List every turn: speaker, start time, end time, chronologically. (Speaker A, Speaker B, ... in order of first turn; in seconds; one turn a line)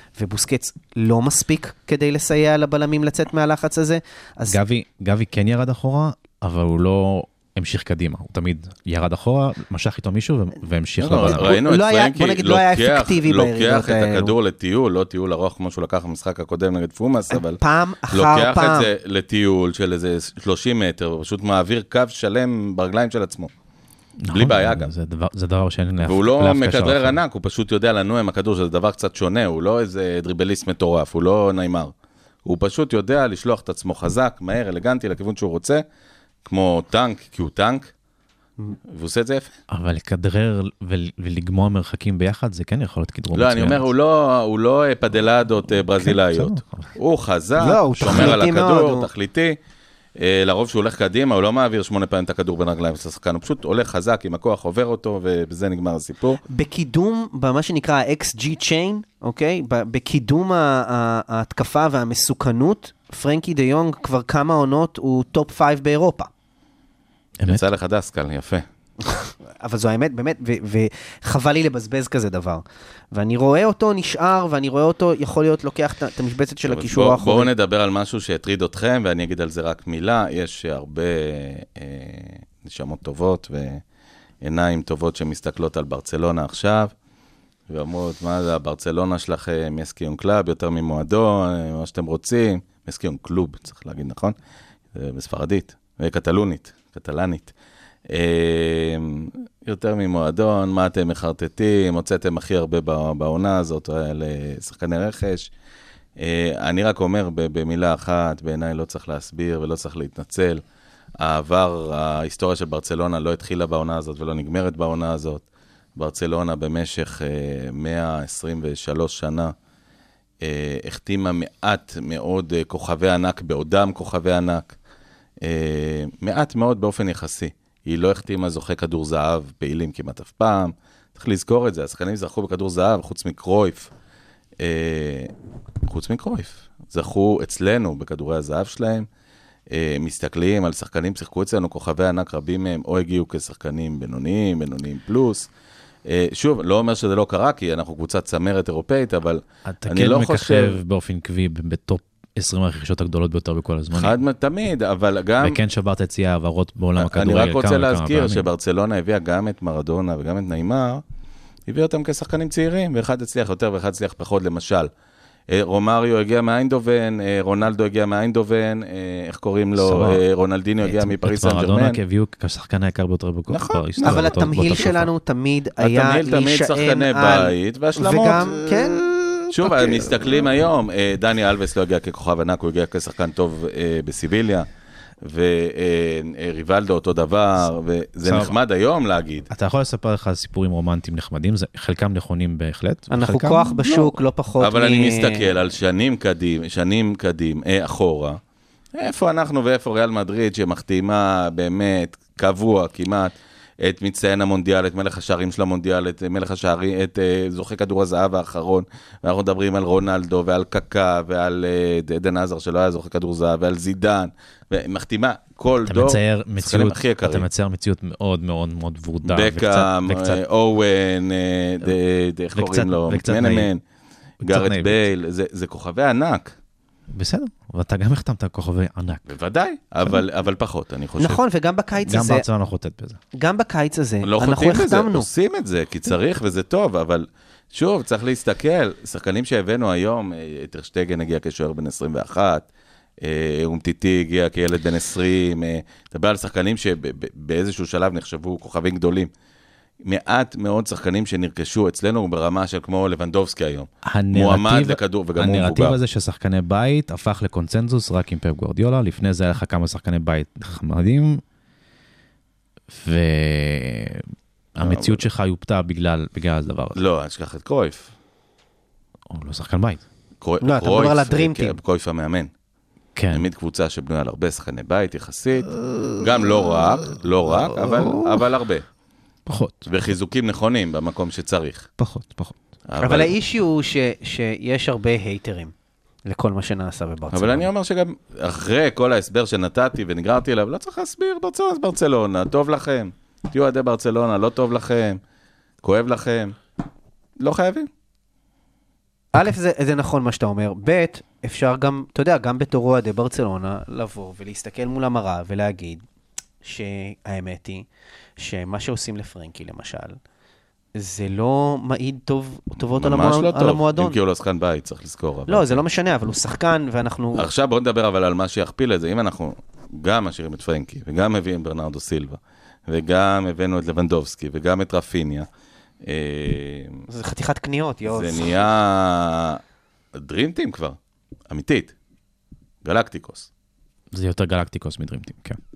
Speaker A: 0.2-4.6
Speaker B: 4.5-11.6
Speaker C: 11.0-23.5
Speaker A: 11.2-14.3
Speaker A: 17.3-18.9
Speaker B: 24.2-27.2
Speaker C: 24.3-24.9
Speaker C: 26.0-31.9
Speaker C: 32.5-35.8
Speaker C: 36.5-37.9
Speaker C: 38.9-39.5
Speaker B: 39.7-43.9
Speaker C: 43.3-49.6
Speaker B: 46.0-46.9
Speaker A: 47.6-49.1
Speaker B: 48.0-48.3
Speaker C: 50.2-56.4
Speaker A: 56.5-66.3
Speaker B: 67.4-67.7
Speaker C: 67.5-68.7
Speaker A: 69.0-77.5
Speaker C: 76.7-83.8
Speaker C: 84.4-86.9
Speaker C: 87.7-94.3
Speaker C: 94.9-97.5
Speaker C: 98.1-105.5
Speaker C: 106.2-110.6
Speaker C: 111.2-115.5
Speaker C: 116.0-119.5
Speaker C: 120.4-124.8
Speaker C: 125.4-133.9
Speaker C: 134.6-135.3
Speaker C: 135.9-139.1
Speaker C: 139.7-145.5
Speaker C: 146.1-150.8
Speaker B: 149.7-154.2
Speaker C: 153.9-155.6
Speaker B: 155.4-158.5
Speaker C: 157.0-161.0
Speaker C: 161.7-164.9
Speaker C: 165.5-172.0
Speaker B: 169.8-170.2
Speaker B: 170.8-175.1
Speaker C: 173.5-174.9
Speaker A: 174.0-179.1
Speaker C: 175.8-178.7
Speaker C: 179.5-184.7
Speaker C: 185.2-189.5
Speaker B: 188.2-188.6
Speaker B: 189.5-193.9
Speaker A: 193.1-195.5
Speaker C: 194.6-198.4
Speaker C: 198.9-217.5
Speaker B: 215.9-220.4
Speaker C: 219.2-223.8
Speaker B: 222.5-223.7
Speaker B: 224.4-225.0
Speaker C: 224.4-226.5
Speaker B: 227.1-229.3
Speaker C: 229.3-231.4
Speaker A: 231.2-232.5
Speaker B: 232.0-233.2
Speaker A: 233.4-235.3
Speaker C: 234.2-242.7
Speaker C: 243.2-249.3
Speaker C: 250.0-256.0
Speaker B: 254.1-261.4
Speaker B: 262.9-267.0
Speaker C: 264.8-265.2
Speaker C: 266.9-268.1
Speaker B: 269.3-270.0
Speaker C: 270.4-272.5
Speaker A: 270.6-271.8
Speaker B: 273.2-273.4
Speaker C: 273.3-278.9
Speaker B: 275.8-278.5
Speaker B: 279.5-279.9
Speaker C: 279.9-281.9
Speaker B: 282.0-282.6
Speaker C: 282.9-283.3
Speaker A: 283.0-285.7
Speaker A: 286.2-287.7
Speaker C: 287.3-295.2
Speaker C: 295.8-296.6
Speaker C: 297.4-297.9
Speaker A: 299.3-306.1
Speaker A: 306.6-307.9
Speaker A: 308.4-310.2
Speaker A: 311.0-314.2
Speaker C: 312.8-315.8
Speaker A: 315.5-317.5
Speaker C: 317.4-325.5
Speaker C: 326.1-327.1
Speaker A: 327.1-328.6
Speaker C: 328.1-329.6
Speaker C: 330.1-331.0
Speaker C: 331.5-331.9
Speaker C: 332.8-333.5
Speaker B: 334.1-335.6